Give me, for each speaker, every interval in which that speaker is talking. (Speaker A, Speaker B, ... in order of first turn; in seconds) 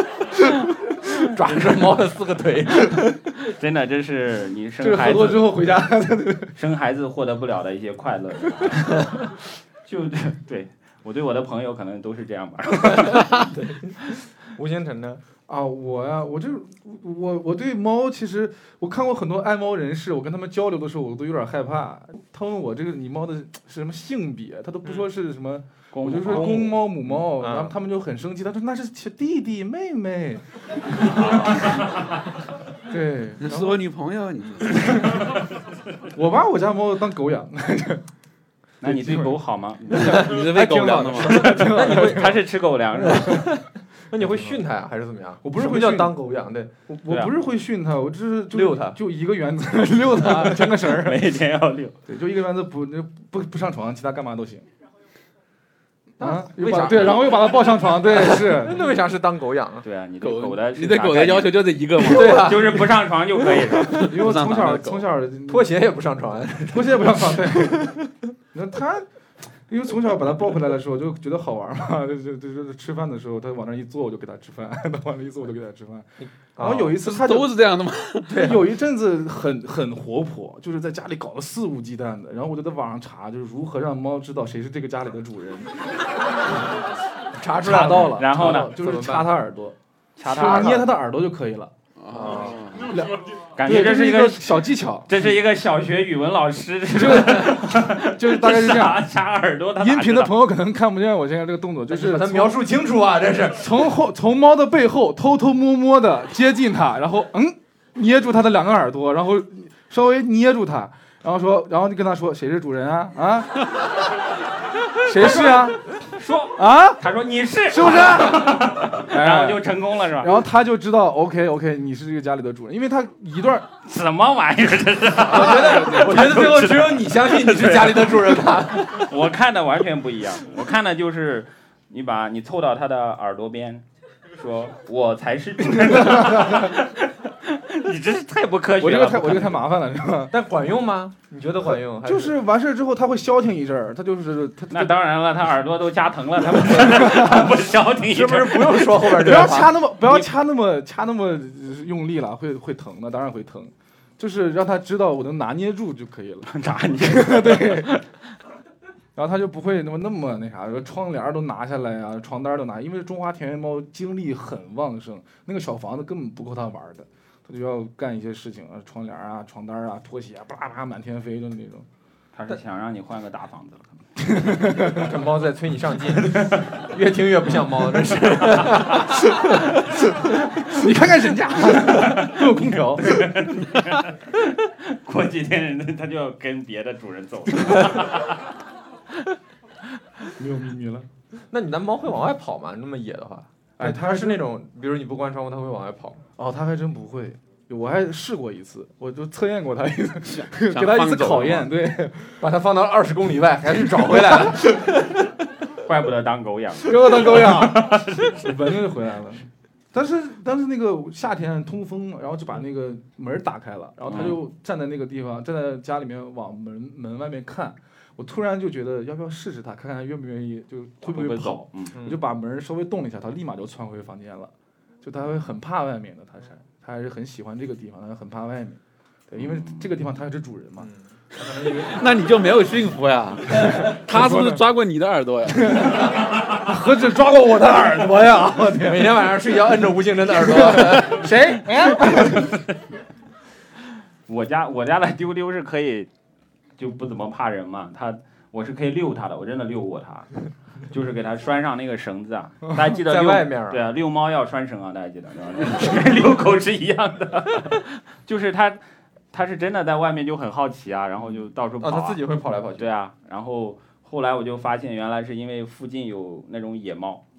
Speaker A: 0.3-3.2, 12.9-15.2, 27.1-27.7, 41.1-42.4, 43.0-46.7, 48.5-49.0, 56.2-57.5, 58.1-59.8, 62.0-63.0, 63.6-64.1, 65.5-68.0, 76.2-77.0, 78.3-78.6, 87.3-89.3, 90.4-90.8, 92.1-92.6, 101.9-103.7, 125.2-129.1, 140.3-142.3, 148.0-149.8, 174.9-179.6, 191.5-196.2, 202.4-205.2, 221.9-222.2, 230.8-232.0, 238.8-241.3, 253.0-253.8, 261.8-262.9
Speaker B: 3.3-5.7, 6.5-13.5, 25.9-26.8, 38.8-40.4, 41.6-43.5, 47.1-47.3, 50.2-52.0, 59.8-64.1, 88.2-88.7, 90.2-90.9, 93.5-100.3, 116.1-120.4, 123.8-133.8, 134.4-139.6, 144.7-149.3, 156.4-158.1, 172.3-174.1, 181.8-188.3, 205.8-208.5, 214.1-214.4, 221.0-221.9, 229.4-229.9, 244.3-246.1, 246.8-258.8, 259.3-267.2
Speaker C: 4.8-6.5, 15.5-31.8, 32.9-33.8, 36.1-38.0, 38.8-39.4, 40.0-42.4, 44.2-44.6, 45.4-46.2, 46.9-51.3, 52.0-54.6, 56.2-58.9, 64.0-65.7, 66.7-68.0, 68.5-69.1, 69.7-77.6, 78.3-85.7, 87.6-91.7, 92.9-95.3, 96.9-99.0, 99.8-102.6, 103.6-113.7, 115.0-115.9, 116.5-117.0, 117.7-119.7, 120.2-123.7, 136.1-136.6, 138.8-140.3, 141.7-144.9, 146.7-147.5, 149.0-158.0, 159.2-171.8, 174.3-175.1, 180.6-183.7, 190.4-191.1, 193.8-194.4, 196.4-202.4, 206.8-230.9, 233.6-234.6, 235.6-239.3, 240.4-242.5
Speaker D: 33.4-35.1, 39.9-41.6, 60.2-62.6, 64.1-65.1, 77.0-78.4, 92.0-92.9, 125.6-126.1, 200.2-201.7, 231.8-236.1